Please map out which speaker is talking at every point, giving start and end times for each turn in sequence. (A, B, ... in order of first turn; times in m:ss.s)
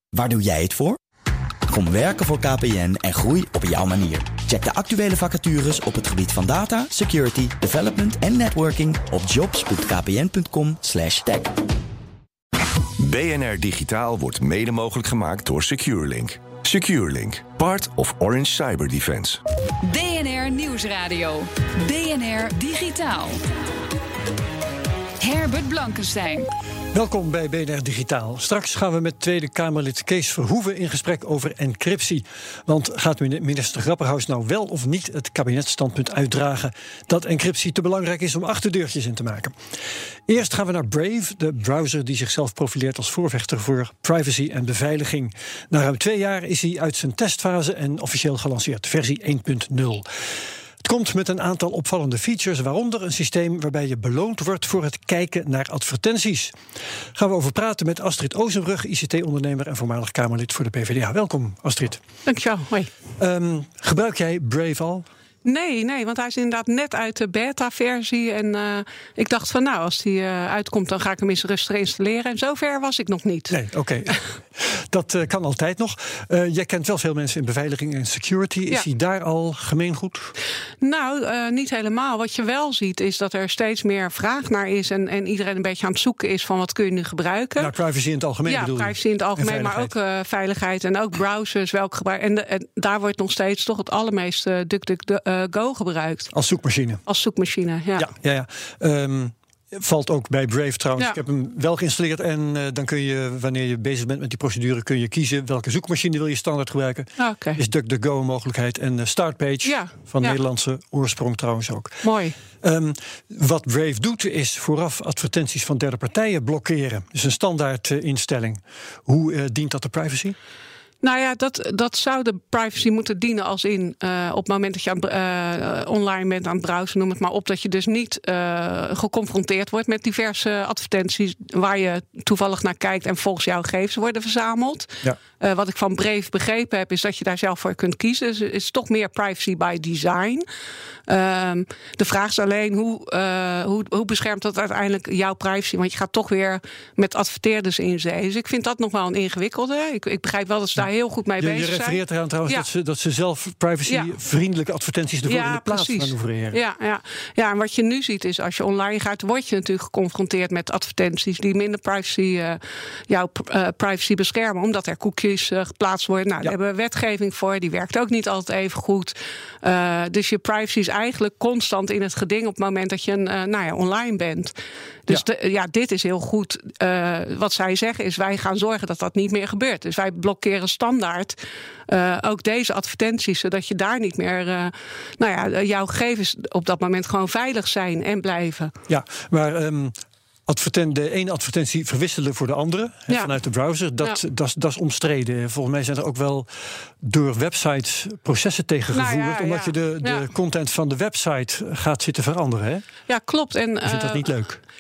0:00.1-0:01.0 A
0:01.7-0:11.6 A
0:13.0-0:19.4 B
0:19.8-0:23.4 C
0:25.2-0:26.5 C
0:26.9-0:39.6 D
0:40.3-0:50.1 D
0:50.8-0:56.6 D
0:57.2-1:02.0 D
1:02.2-1:02.9 E
1:03.2-1:05.1 D
1:05.4-1:13.6 E
1:13.5-1:20.3 D
1:20.8-1:27.7 E
1:27.6-1:29.9 D
1:28.5-1:36.3 E
1:36.3-1:37.0 D
1:37.1-1:38.1 E
1:38.0-1:52.0 D
1:47.2-1:47.6 E
1:49.6-1:50.4 E
1:52.0-1:52.4 E
1:52.6-2:00.4 D
2:01.0-2:20.4 E
2:21.1-2:32.7 E
2:31.4-2:36.6 D
2:35.2-2:54.6 E
2:55.1-3:01.4 E
3:01.9-3:08.7 E
3:08.9-3:10.0 D
3:10.5-3:22.9 D
3:13.1-3:13.3 E
3:18.9-3:20.3 E
3:23.1-3:24.3 E
3:23.8-3:24.6 D